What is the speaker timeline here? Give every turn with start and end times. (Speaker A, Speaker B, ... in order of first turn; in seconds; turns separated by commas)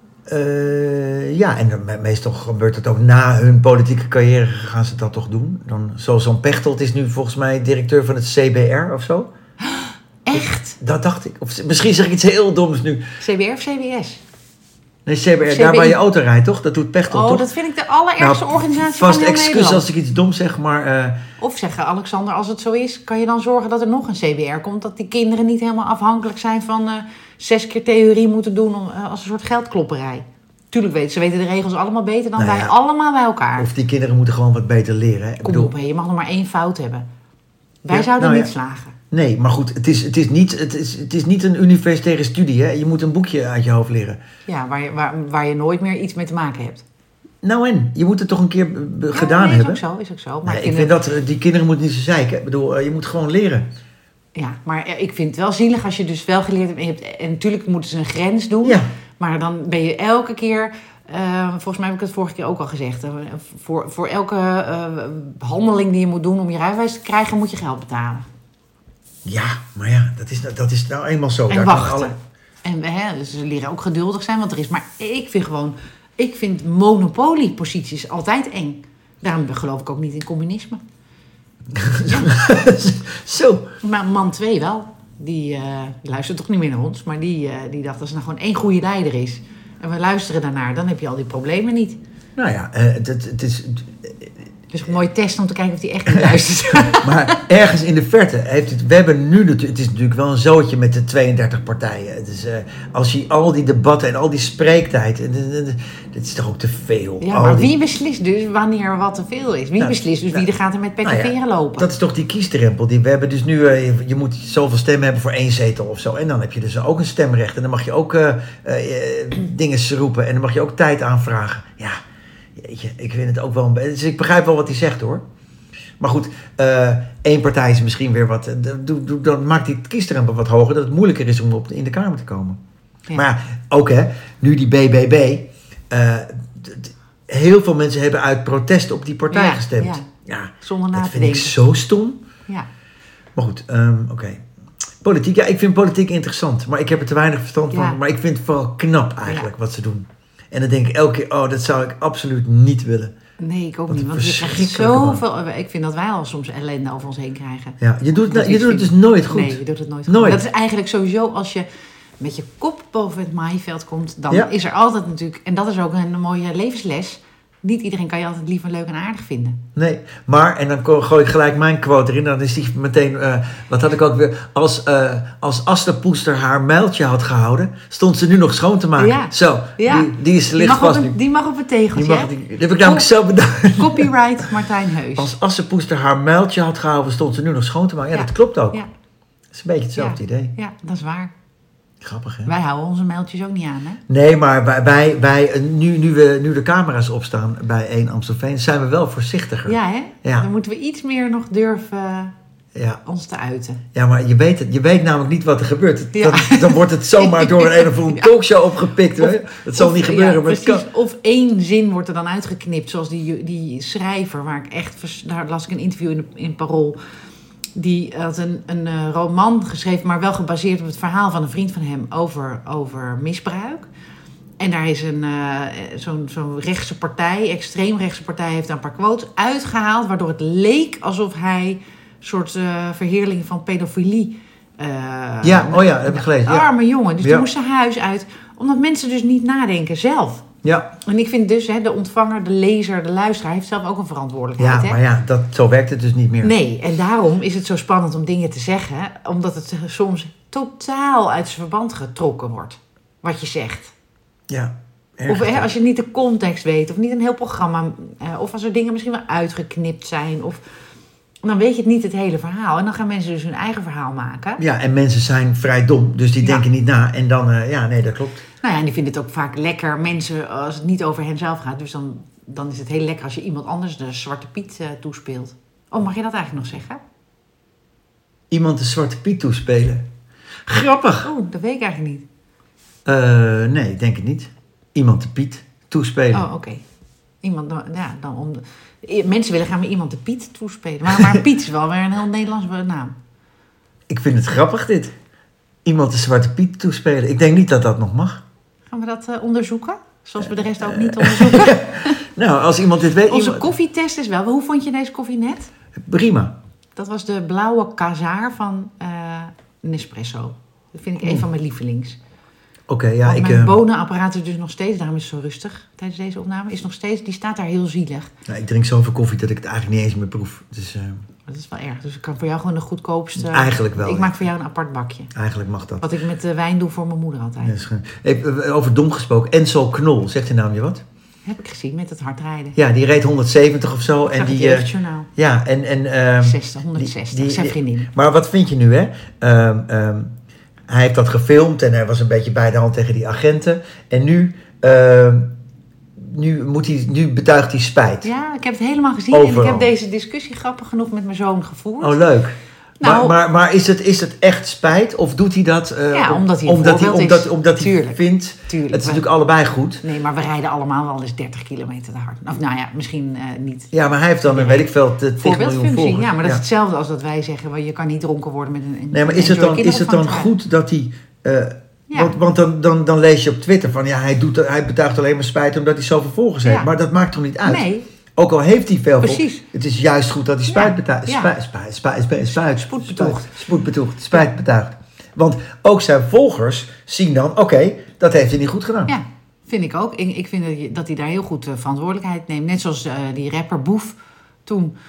Speaker A: 0.3-9.3, Speaker B: 9.6-10.8, Speaker A: 10.3-13.1, Speaker B: 13.2-14.2, Speaker A: 15.1-17.5, Speaker B: 15.4-16.0, Speaker B: 17.1-19.9, Speaker A: 18.2-21.2, Speaker B: 21.4-33.7, Speaker A: 32.4-32.7, Speaker A: 33.6-35.7, Speaker B: 35.4-37.1, Speaker B: 37.9-39.0, Speaker A: 37.9-38.5, Speaker A: 39.1-44.2, Speaker B: 44.5-46.8, Speaker A: 47.4-49.8, Speaker B: 49.1-50.9, Speaker A: 50.5-53.7, Speaker B: 54.4-68.3, Speaker A: 58.6-58.9, Speaker A: 69.2-72.1, Speaker B: 71.5-80.8, Speaker A: 81.7-83.7, Speaker B: 82.1-82.4, Speaker B: 83.8-92.0, Speaker A: 92.4-94.3, Speaker B: 94.7-97.4, Speaker A: 96.9-107.7, Speaker B: 107.2-111.9, Speaker A: 109.8-110.5, Speaker A: 111.0-122.0, Speaker A: 122.6-125.2, Speaker A: 126.0-132.6, Speaker A: 133.2-142.2, Speaker B: 139.3-140.1, Speaker B: 140.6-141.6, Speaker A: 143.4-144.4, Speaker A: 145.0-153.1, Speaker B: 147.7-148.0, Speaker B: 153.4-161.7, Speaker A: 153.9-155.2, Speaker A: 157.8-160.4, Speaker B: 162.2-169.6, Speaker A: 169.8-181.2, Speaker B: 179.0-183.1, Speaker A: 181.9-184.1, Speaker B: 183.7-185.3, Speaker A: 185.2-188.8, Speaker B: 188.1-188.9, Speaker A: 189.5-190.5, Speaker B: 190.0-191.3, Speaker A: 192.0-192.5, Speaker B: 192.5-194.0, Speaker A: 194.1-200.5, Speaker B: 199.7-202.3, Speaker A: 202.8-203.0, Speaker B: 203.1-203.8, Speaker A: 203.9-210.8, Speaker B: 206.1-208.3, Speaker B: 209.2-217.0, Speaker B: 217.8-223.9, Speaker B: 224.6-240.5, Speaker A: 235.4-237.5, Speaker A: 240.6-240.9, Speaker B: 241.0-245.0, Speaker A: 244.6-246.5, Speaker B: 246.4-253.9, Speaker A: 254.5-255.7, Speaker B: 255.3-260.6, Speaker B: 261.4-264.6, Speaker A: 264.6-268.4, Speaker B: 268.6-277.0, Speaker A: 278.5-280.1, Speaker A: 280.7-281.3, Speaker B: 281.2-282.2, Speaker A: 283.1-286.5, Speaker B: 286.3-286.8, Speaker B: 287.4-293.2, Speaker A: 291.1-291.4, Speaker A: 294.1-295.1, Speaker A: 295.9-298.4, Speaker B: 298.9-302.2, Speaker A: 300.4-303.7, Speaker B: 303.3-305.7, Speaker A: 306.0-306.6, Speaker B: 307.0-312.2, Speaker A: 312.9-313.8, Speaker B: 313.2-318.3, Speaker A: 318.5-321.2, Speaker B: 321.5-325.3, Speaker A: 323.4-324.5, Speaker A: 325.3-326.1, Speaker B: 326.0-327.8, Speaker A: 327.6-331.0, Speaker B: 331.5-332.8, Speaker A: 332.8-340.3, Speaker B: 334.3-335.3, Speaker B: 336.4-338.1, Speaker A: 340.9-345.5, Speaker A: 346.2-348.3, Speaker B: 348.2-352.2, Speaker A: 349.3-349.9, Speaker A: 352.0-360.0, Speaker B: 353.0-353.4, Speaker B: 356.1-359.2, Speaker B: 360.0-363.9, Speaker A: 363.9-366.6, Speaker B: 364.4-370.5, Speaker A: 369.1-389.1, Speaker B: 372.1-372.4, Speaker B: 376.6-376.9, Speaker B: 377.6-378.1, Speaker B: 379.2-379.6, Speaker B: 380.7-381.5, Speaker B: 382.6-383.6, Speaker B: 389.1-394.9